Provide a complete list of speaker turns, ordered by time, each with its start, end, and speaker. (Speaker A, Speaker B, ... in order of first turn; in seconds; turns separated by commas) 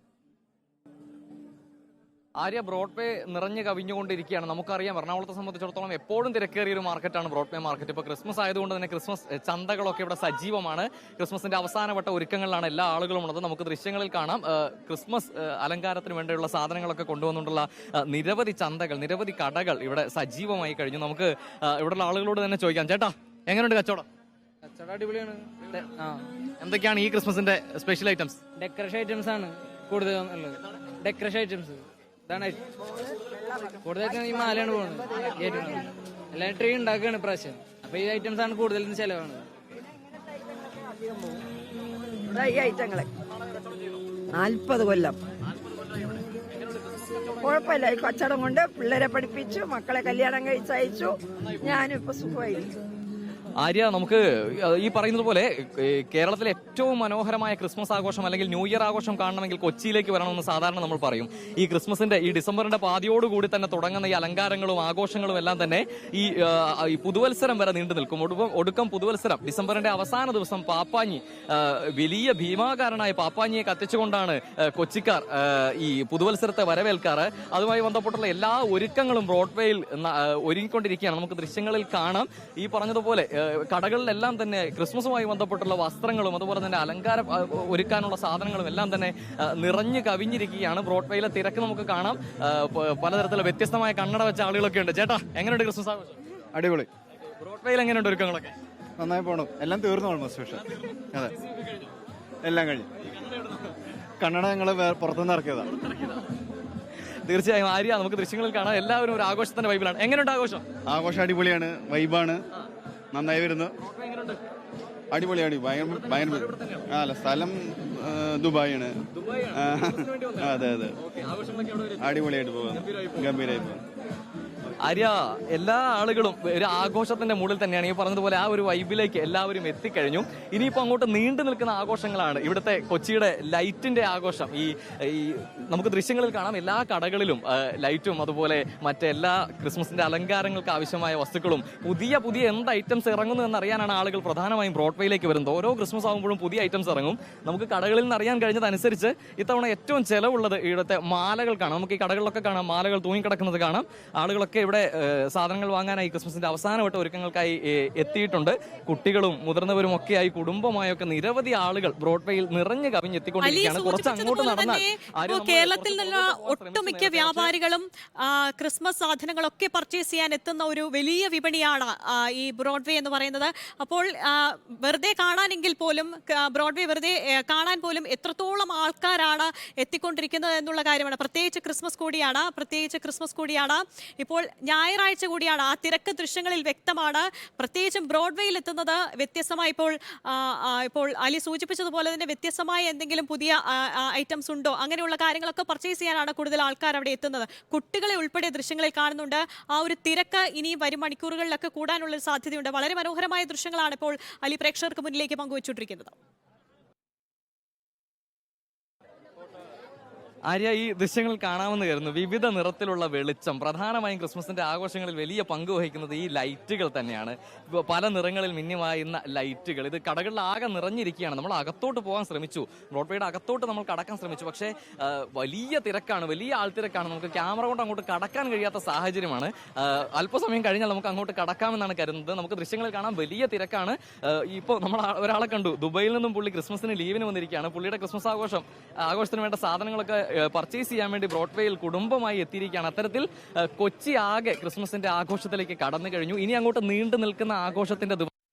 Speaker A: 2.4-24.1, Speaker B: 24.7-26.3, Speaker A: 26.6-28.4, Speaker B: 28.6-32.6, Speaker B: 33.8-39.5, Speaker C: 42.3-43.1, Speaker C: 44.3-45.2, Speaker C: 47.4-52.8, Speaker A: 53.6-96.2, Speaker D: 96.5-96.9, Speaker A: 97.4-98.5, Speaker D: 99.0-101.3, Speaker D: 102.4-102.9, Speaker D: 104.2-105.7, Speaker A: 105.8-106.2, Speaker A: 107.2-110.6, Speaker D: 110.9-112.4, Speaker D: 113.1-113.7, Speaker A: 113.9-114.4, Speaker D: 115.1-119.0, Speaker A: 115.8-116.9, Speaker A: 119.1-122.2, Speaker D: 119.5-121.0, Speaker D: 122.0-123.8, Speaker A: 122.7-123.3, Speaker A: 124.8-167.6, Speaker E: 163.4-206.1, Speaker A: 210.4-248.3